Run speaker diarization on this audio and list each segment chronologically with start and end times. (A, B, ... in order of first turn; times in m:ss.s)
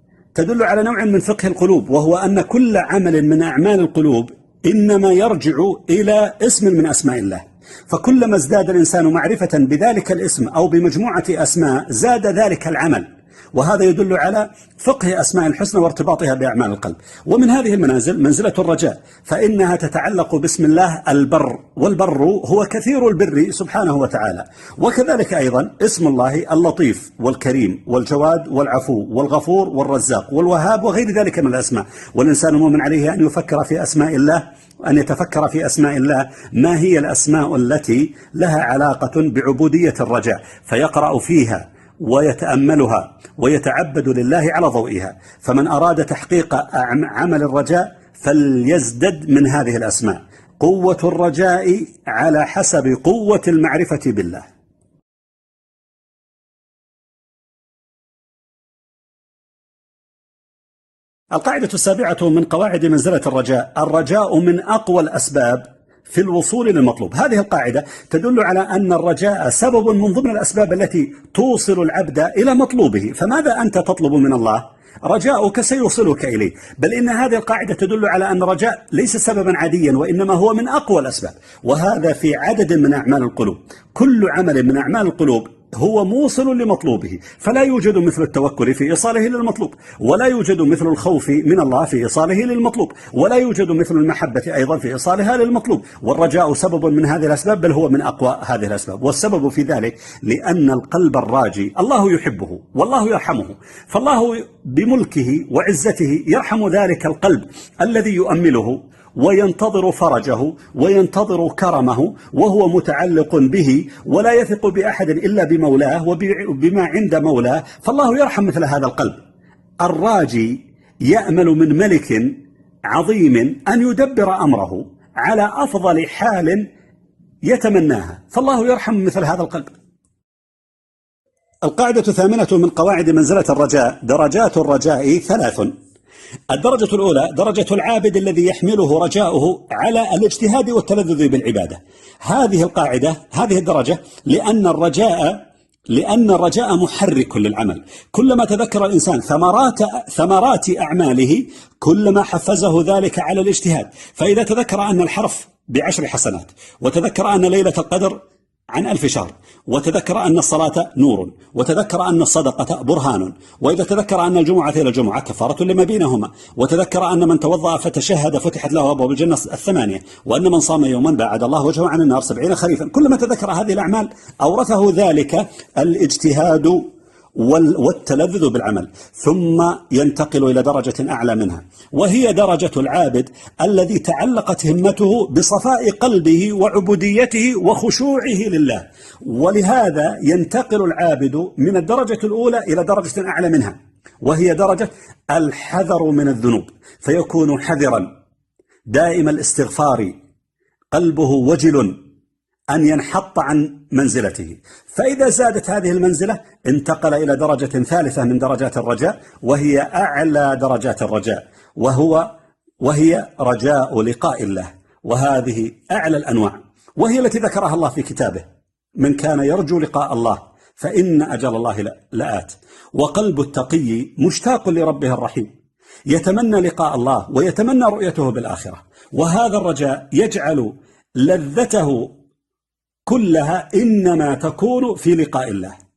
0:00.4-0:54.5 A
1:01.3-1:59.2 A
1:59.8-2:02.3 A
2:02.9-2:06.6 A
2:07.5-2:09.8 A
2:11.6-2:15.7 A
2:16.5-2:38.2 A
2:38.7-2:56.8 A
2:57.4-3:18.1 A
3:18.9-3:20.1 A
3:20.9-3:22.0 A
3:22.7-3:32.3 A
3:32.8-3:38.4 A
3:39.0-3:45.5 A
3:46.1-3:52.1 A
3:53.1-3:55.8 A